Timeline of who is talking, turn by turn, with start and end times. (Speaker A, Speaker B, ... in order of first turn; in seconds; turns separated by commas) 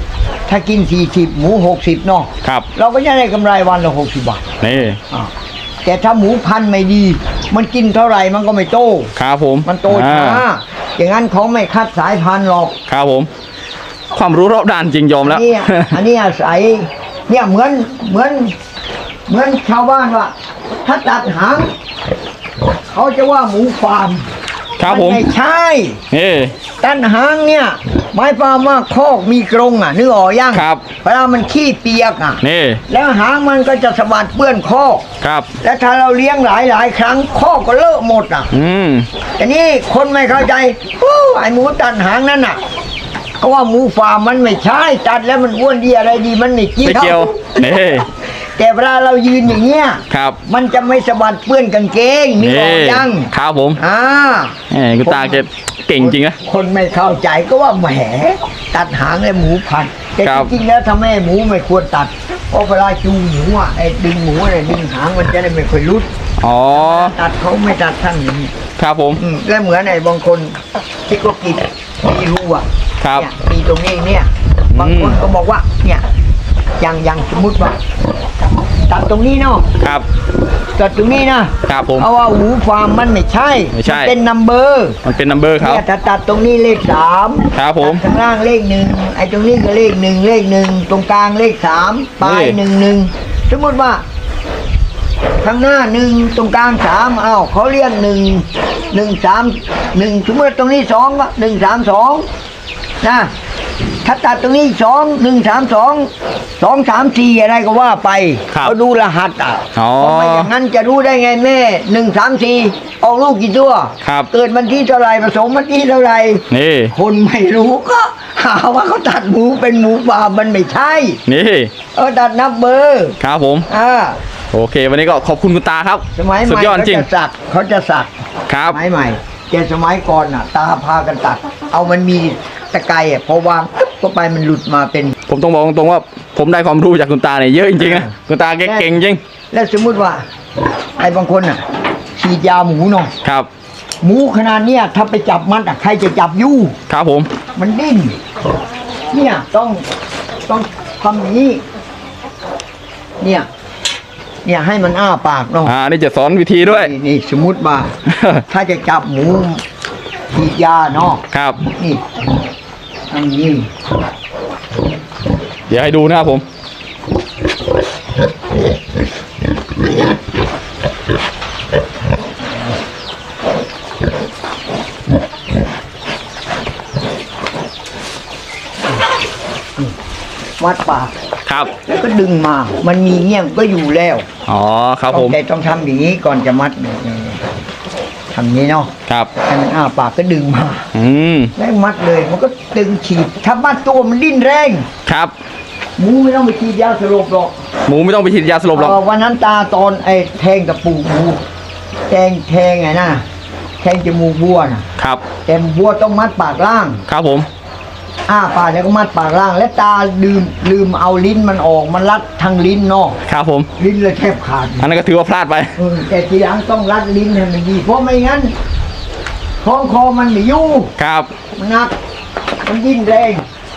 Speaker A: 0.5-4.5, Speaker B: 4.6-5.0, Speaker A: 5.8-9.1, Speaker B: 9.2-10.4, Speaker A: 9.6-12.7, Speaker B: 12.9-13.3, Speaker B: 14.1-16.0, Speaker A: 15.2-18.5, Speaker A: 19.3-20.3, Speaker A: 20.8-21.7, Speaker A: 22.9-24.2, Speaker B: 24.8-25.3, Speaker A: 24.8-26.0, Speaker B: 26.1-26.5, Speaker A: 26.8-35.0, Speaker B: 30.5-30.8, Speaker B: 32.4-32.8, Speaker B: 35.2-35.5, Speaker A: 35.6-38.5, Speaker B: 38.5-39.1, Speaker A: 39.4-42.6, Speaker A: 43.4-47.5, Speaker B: 46.8-48.1, Speaker A: 48.5-55.4, Speaker B: 50.1-50.4, Speaker B: 52.4-53.8, Speaker B: 54.7-56.4, Speaker A: 56.0-66.1, Speaker B: 60.2-60.5, Speaker B: 66.4-67.1, Speaker A: 66.7-68.5, Speaker B: 68.8-69.2, Speaker A: 69.2-70.6, Speaker A: 71.1-72.6, Speaker B: 73.0-73.3, Speaker A: 73.2-76.0, Speaker B: 74.7-75.2, Speaker A: 76.8-77.8, Speaker A: 78.9-79.6, Speaker B: 79.8-80.0, Speaker A: 80.8-85.0, Speaker B: 81.7-82.0, Speaker B: 83.7-84.1, Speaker B: 85.0-85.8, Speaker A: 85.6-94.0, Speaker B: 87.5-88.0, Speaker B: 92.2-92.6, Speaker A: 95.4-102.2, Speaker A: 103.0-103.3, Speaker A: 104.0-121.2, Speaker B: 109.8-110.5, Speaker B: 114.0-114.3, Speaker B: 116.5-116.9, Speaker B: 121.3-121.7, Speaker A: 121.9-123.2, Speaker B: 123.2-123.7, Speaker A: 123.7-124.2, Speaker B: 124.5-127.1, Speaker A: 126.1-128.1, Speaker B: 128.5-128.8, Speaker A: 128.7-135.2, Speaker B: 135.3-139.2, Speaker A: 137.8-138.1, Speaker A: 138.6-138.9, Speaker A: 139.5-140.2, Speaker A: 141.0-141.6, Speaker A: 142.2-143.1, Speaker A: 144.0-146.7, Speaker B: 146.9-147.3, Speaker A: 147.6-148.2, Speaker A: 149.1-149.8, Speaker A: 150.5-151.6, Speaker A: 153.2-153.5, Speaker A: 154.4-155.7, Speaker B: 155.6-156.9, Speaker A: 156.6-157.9, Speaker B: 158.1-158.4, Speaker A: 158.5-159.6, Speaker A: 160.3-161.2, Speaker B: 161.3-161.6, Speaker A: 161.8-162.0, Speaker A: 163.1-163.7, Speaker B: 165.7-166.4, Speaker A: 180.6-181.1, Speaker A: 181.8-184.2, Speaker B: 184.5-185.3, Speaker A: 185.1-187.4, Speaker A: 188.3-188.9, Speaker A: 189.4-190.9, Speaker B: 190.9-191.5, Speaker A: 191.6-194.9, Speaker B: 195.1-195.3, Speaker A: 196.0-197.5, Speaker B: 197.9-199.0, Speaker A: 198.7-201.4, Speaker A: 202.1-203.2, Speaker A: 203.8-204.8, Speaker A: 205.4-207.0, Speaker B: 207.1-207.5, Speaker A: 208.3-213.2, Speaker B: 213.2-213.7, Speaker A: 213.8-214.8, Speaker B: 214.8-215.7, Speaker A: 215.8-218.5, Speaker A: 219.6-220.9, Speaker B: 221.0-221.3, Speaker A: 221.6-221.9, Speaker A: 222.6-223.4